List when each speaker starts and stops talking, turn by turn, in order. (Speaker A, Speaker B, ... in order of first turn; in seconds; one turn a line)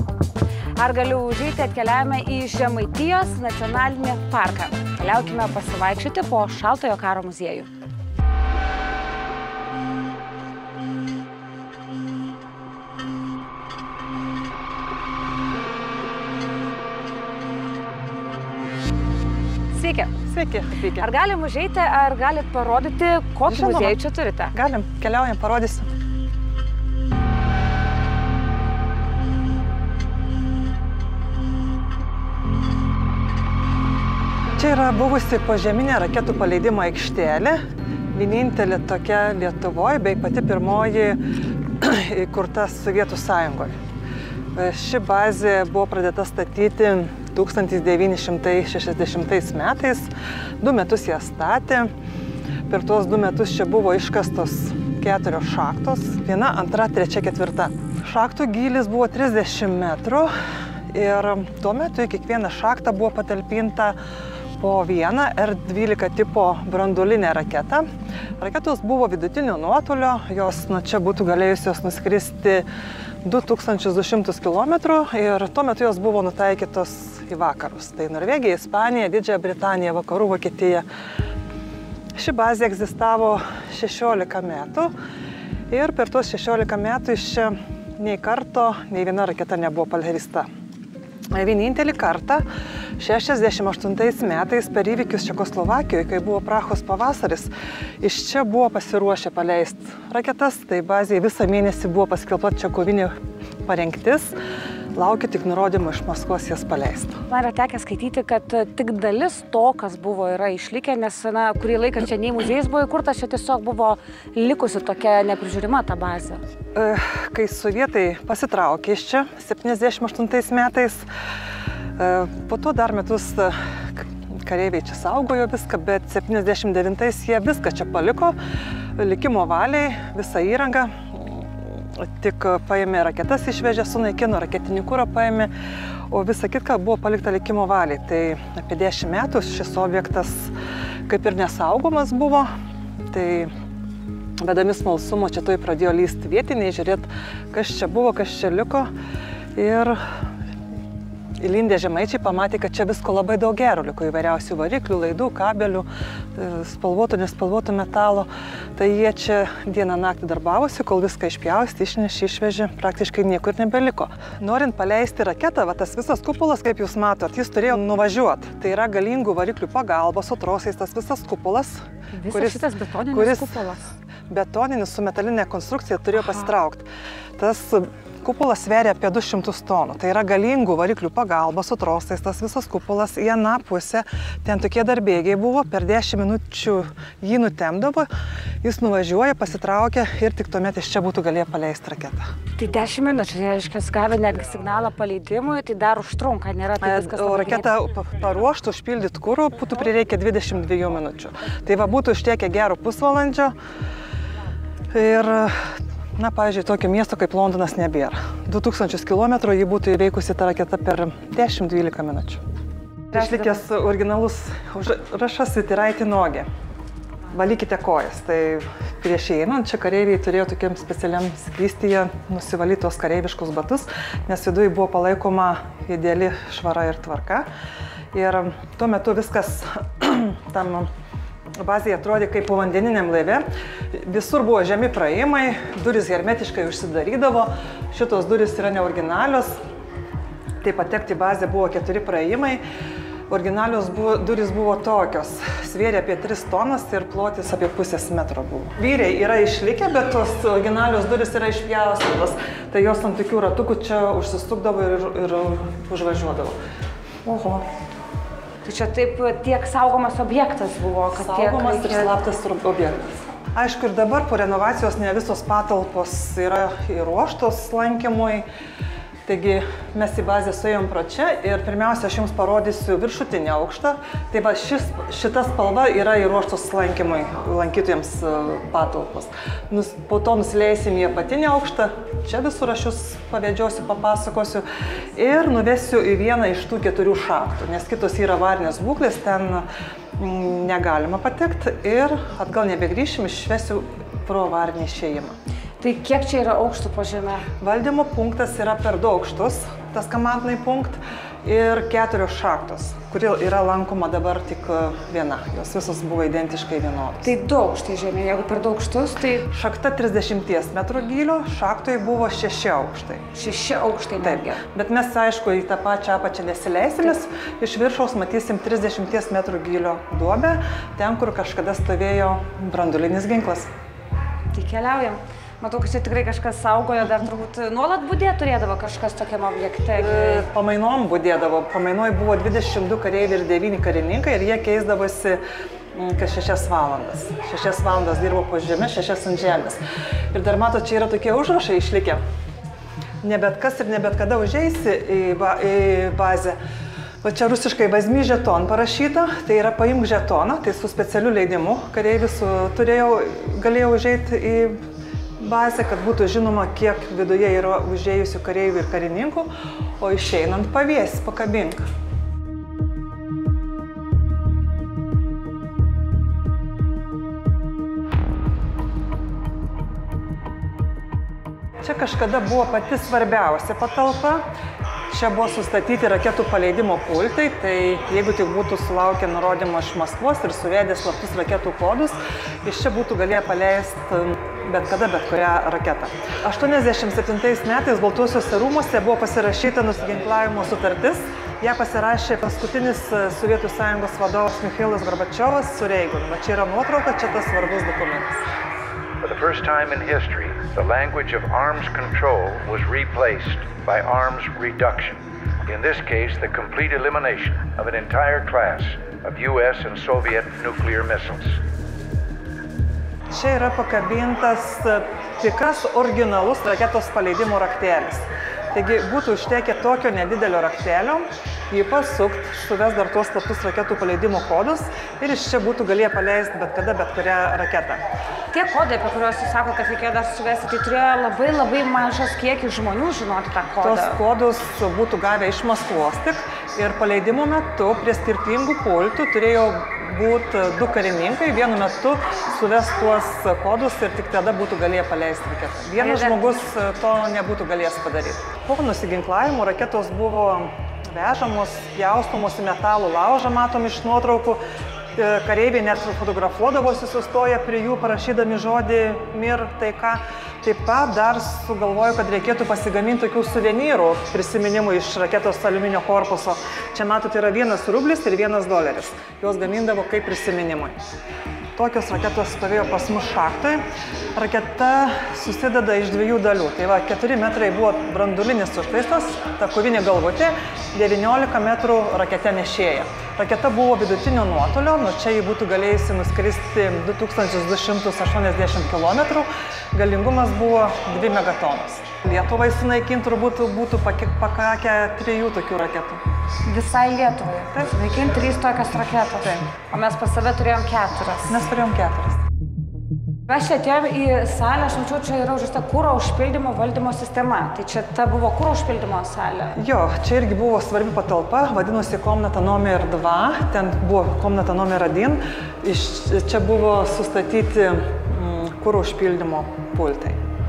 Speaker A: 0.8-7.7
Speaker A: 19.7-20.1
Speaker B: 20.2-21.1
Speaker A: 21.0-24.5
Speaker B: 23.5-24.0
Speaker B: 24.5-25.9
Speaker B: 34.6-37.6
Speaker B: 38.1-41.2
Speaker B: 41.8-43.7
Speaker B: 44.5-50.1
Speaker B: 50.6-51.9
Speaker B: 52.7-60.3
Speaker B: 60.9-64.0
Speaker B: 64.6-67.8
Speaker B: 68.4-72.7
Speaker B: 73.2-80.8
Speaker B: 82.2-84.9
Speaker B: 85.7-90.5
Speaker B: 91.3-92.4
Speaker B: 93.0-104.3
Speaker B: 104.9-107.2
Speaker A: 107.3-116.4
Speaker B: 116.7-121.0
Speaker B: 122.0-128.3
Speaker B: 128.9-135.5
Speaker B: 136.1-140.5
Speaker B: 141.1-142.5
Speaker B: 143.1-143.5
Speaker B: 144.4-148.9
Speaker B: 149.5-150.0
Speaker B: 151.4-173.6
Speaker A: 172.1-173.8
Speaker B: 174.3-176.8
Speaker B: 177.4-188.1
Speaker B: 188.6-192.3
Speaker A: 192.6-197.7
Speaker B: 196.8-203.5
Speaker B: 204.9-212.4
Speaker B: 213.1-216.5
Speaker B: 217.3-227.5
Speaker B: 228.1-230.9
Speaker B: 231.6-239.6
Speaker B: 240.6-242.6
Speaker B: 243.3-256.6
Speaker B: 257.2-257.6
Speaker A: 258.6-262.1
Speaker B: 261.1-268.4
Speaker B: 269.2-284.6
Speaker B: 285.1-295.3
Speaker A: 295.8-297.4
Speaker B: 297.6-307.3
Speaker A: 307.2-309.5
Speaker B: 309.5-313.2
Speaker A: 313.3-314.6
Speaker B: 314.2-323.7
Speaker A: 324.5-330.5
Speaker B: 329.9-335.4
Speaker B: 335.9-339.8
Speaker B: 340.3-342.2
Speaker B: 343.2-346.6
Speaker B: 347.2-354.8
Speaker B: 355.4-359.5
Speaker B: 360.0-361.8
Speaker B: 371.8-374.5
Speaker B: 375.1-398.4
Speaker C: 399.2-411.6
Speaker B: 413.3-428.0
Speaker A: 428.5-434.2
Speaker B: 433.8-454.6
Speaker A: 446.0-446.6
Speaker B: 455.1-471.0
Speaker B: 471.8-473.8
Speaker B: 474.3-496.2
Speaker A: 496.6-501.6
Speaker B: 501.5-502.4
Speaker A: 503.5-509.8
Speaker B: 509.7-520.4